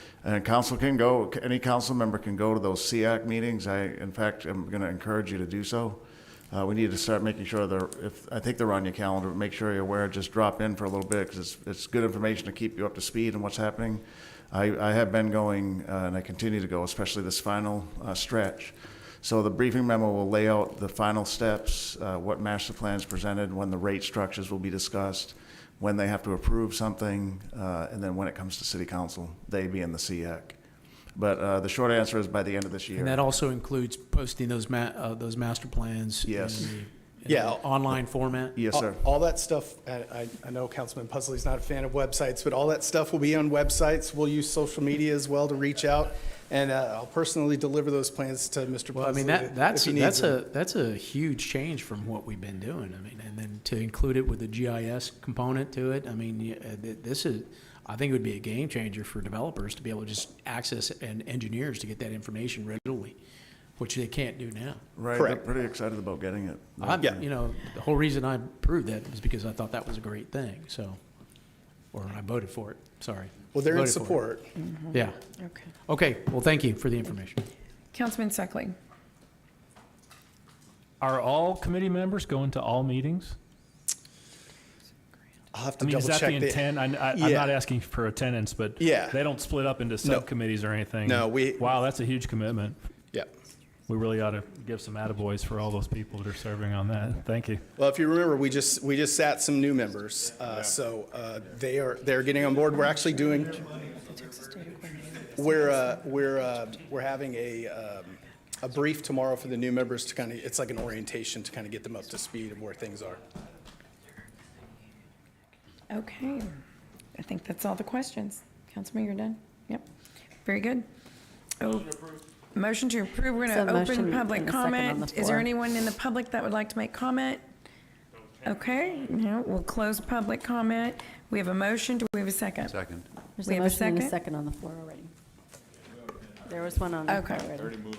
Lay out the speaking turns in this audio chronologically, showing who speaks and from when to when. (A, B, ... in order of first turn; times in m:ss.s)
0:00.2-0:30.6 A
0:31.1-0:33.2 A
0:32.9-0:38.6 B
0:36.2-0:36.7 A
0:37.3-0:37.6 C
0:38.5-0:39.0 A
0:38.7-0:50.4 C
0:48.9-1:03.2 B
1:03.8-1:04.8 B
1:05.0-1:07.2 A
1:05.2-1:05.4 C
1:06.8-1:11.0 B
1:11.9-1:14.2 B
1:13.5-1:14.5 C
1:14.6-1:15.7 D
1:14.9-1:15.2 B
1:15.8-1:17.4 B
1:17.9-1:18.8 D
1:21.0-1:23.4 E
1:25.5-1:27.6 C
1:25.8-1:32.8 E
1:28.8-1:29.2 C
1:30.0-1:30.3 C
1:31.0-1:31.7 C
1:33.9-1:37.6 E
1:37.8-1:43.7 C
1:44.0-1:45.8 D
1:45.4-1:53.2 C
1:55.9-1:56.6 D
1:57.1-1:59.8 D
2:00.4-2:00.8 D
2:01.6-2:07.4 D
2:03.5-2:05.5 F
2:08.4-2:12.8 D
2:13.4-2:15.1 F
2:13.4-2:14.2 D
2:16.4-2:17.8 F
2:17.0-2:17.7 D